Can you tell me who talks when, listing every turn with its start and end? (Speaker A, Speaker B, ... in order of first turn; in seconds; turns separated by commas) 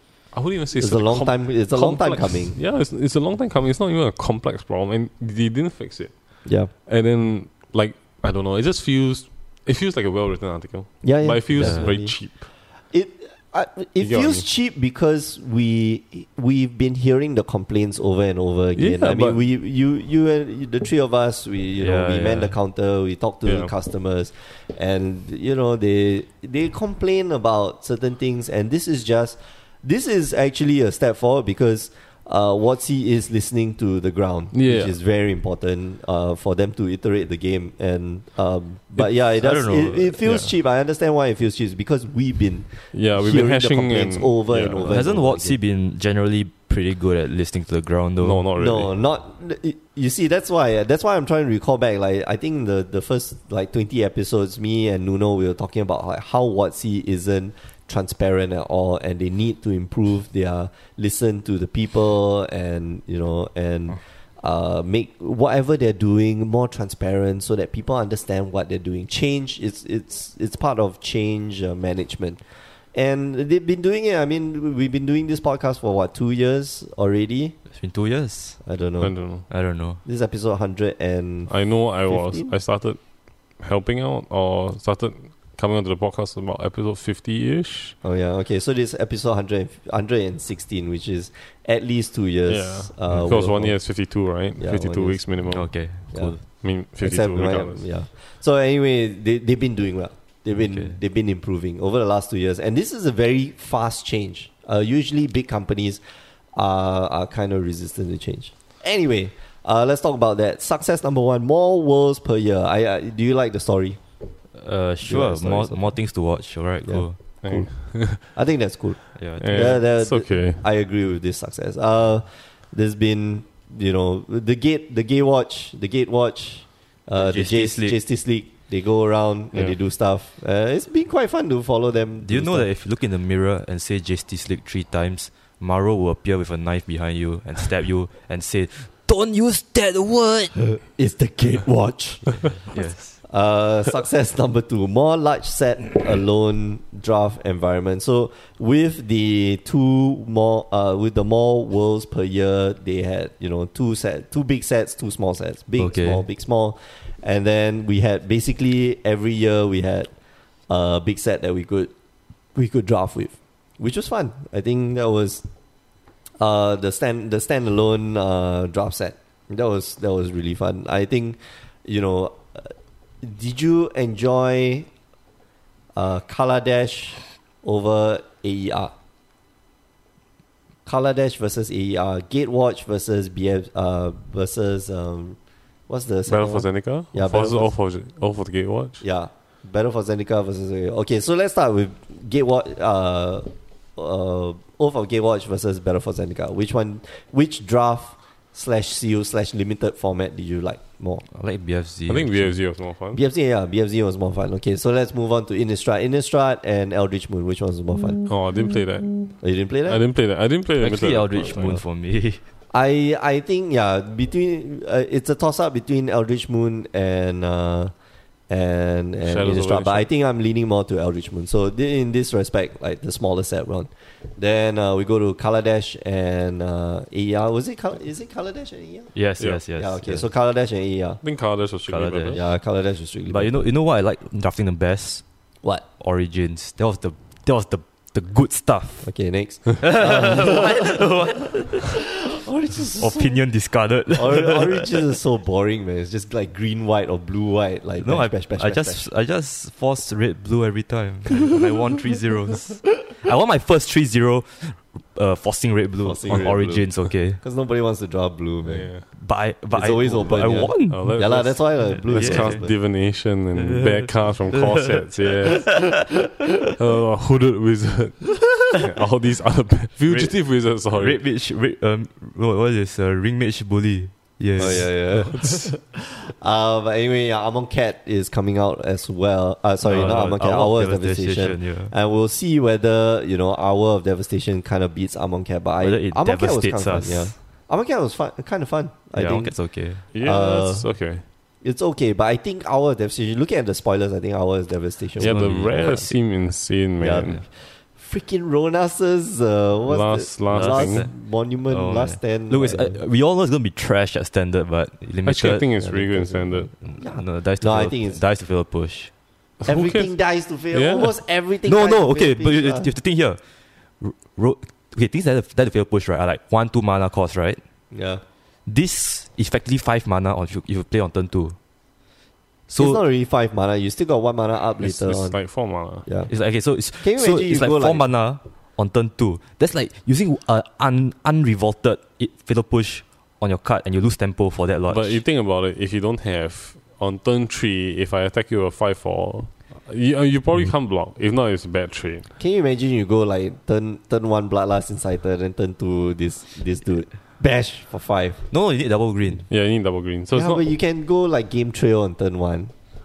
Speaker A: 0.3-12.5, Speaker B: 0.8-2.6, Speaker B: 6.5-6.7, Speaker B: 11.0-45.6, Speaker C: 11.6-11.9, Speaker A: 14.0-14.4, Speaker A: 18.8-19.4, Speaker C: 21.8-22.6, Speaker A: 23.4-23.7, Speaker A: 34.5-34.9, Speaker C: 39.0-40.2, Speaker A: 40.2-40.5, Speaker A: 42.9-45.0, Speaker C: 44.8-48.5, Speaker A: 48.2-48.9, Speaker B: 48.6-72.4, Speaker B: 72.9-77.6, Speaker C: 77.7-78.6, Speaker B: 78.6-79.2, Speaker A: 79.0-79.5, Speaker C: 79.5-80.0, Speaker B: 80.0-82.5, Speaker A: 81.5-88.0, Speaker B: 88.0-93.9, Speaker A: 92.5-95.9, Speaker B: 94.6-95.4, Speaker C: 95.5-96.4, Speaker B: 96.1-106.0, Speaker A: 96.4-97.9, Speaker C: 100.5-101.0, Speaker B: 106.6-114.0, Speaker C: 114.5-117.2, Speaker B: 115.0-115.9, Speaker B: 116.8-132.7, Speaker A: 117.4-118.2, Speaker C: 119.2-119.7, Speaker A: 119.4-120.6, Speaker C: 127.2-128.0, Speaker C: 132.2-140.6, Speaker B: 140.8-142.7, Speaker C: 142.7-143.2, Speaker B: 143.2-160.1, Speaker C: 155.8-156.2, Speaker B: 160.7-161.9, Speaker B: 162.6-165.4, Speaker B: 166.4-174.9, Speaker B: 176.0-178.9, Speaker B: 180.9-187.7, Speaker A: 186.3-189.0, Speaker B: 189.0-201.2, Speaker C: 201.3-202.5, Speaker A: 202.1-203.2, Speaker B: 203.1-208.3, Speaker A: 208.3-211.8, Speaker B: 209.4-210.0, Speaker C: 210.8-212.4, Speaker B: 212.7-217.9, Speaker B: 218.5-229.1, Speaker A: 219.2-220.1, Speaker C: 229.1-230.2, Speaker B: 229.8-231.2, Speaker A: 231.2-232.4, Speaker C: 231.9-232.4, Speaker B: 232.3-233.6, Speaker C: 233.3-235.2, Speaker C: 236.0-239.1, Speaker B: 239.0-241.2, Speaker C: 239.8-242.0, Speaker B: 241.8-243.4, Speaker C: 243.0-244.9, Speaker B: 244.1-249.1, Speaker C: 248.0-257.4, Speaker B: 256.0-259.1, Speaker A: 258.6-259.1, Speaker C: 259.1-261.4, Speaker B: 259.7-262.8, Speaker A: 260.9-266.1, Speaker C: 262.0-262.7, Speaker C: 263.6-265.0, Speaker A: 266.8-271.2, Speaker C: 270.1-275.0, Speaker B: 274.6-290.9, Speaker A: 275.2-275.7, Speaker C: 279.8-281.9, Speaker C: 285.8-287.3, Speaker C: 289.1-290.0, Speaker A: 290.1-291.2, Speaker B: 291.6-296.2, Speaker A: 295.2-297.4, Speaker C: 295.2-296.1, Speaker B: 297.0-303.0, Speaker A: 299.9-301.1, Speaker C: 300.5-305.7, Speaker A: 305.3-306.7, Speaker B: 305.8-308.2, Speaker C: 306.8-309.1, Speaker A: 309.6-310.1, Speaker B: 309.7-312.9, Speaker A: 310.7-311.1, Speaker C: 311.7-313.4, Speaker C: 314.0-317.6, Speaker B: 317.9-318.2, Speaker C: 318.7-321.6, Speaker C: 322.7-323.0, Speaker B: 322.8-325.4, Speaker A: 324.8-326.1, Speaker B: 326.1-326.3, Speaker C: 326.3-335.2, Speaker B: 327.0-328.1, Speaker A: 334.9-342.3, Speaker B: 342.4-348.4, Speaker C: 348.5-349.5, Speaker A: 349.5-350.6, Speaker B: 350.3-352.7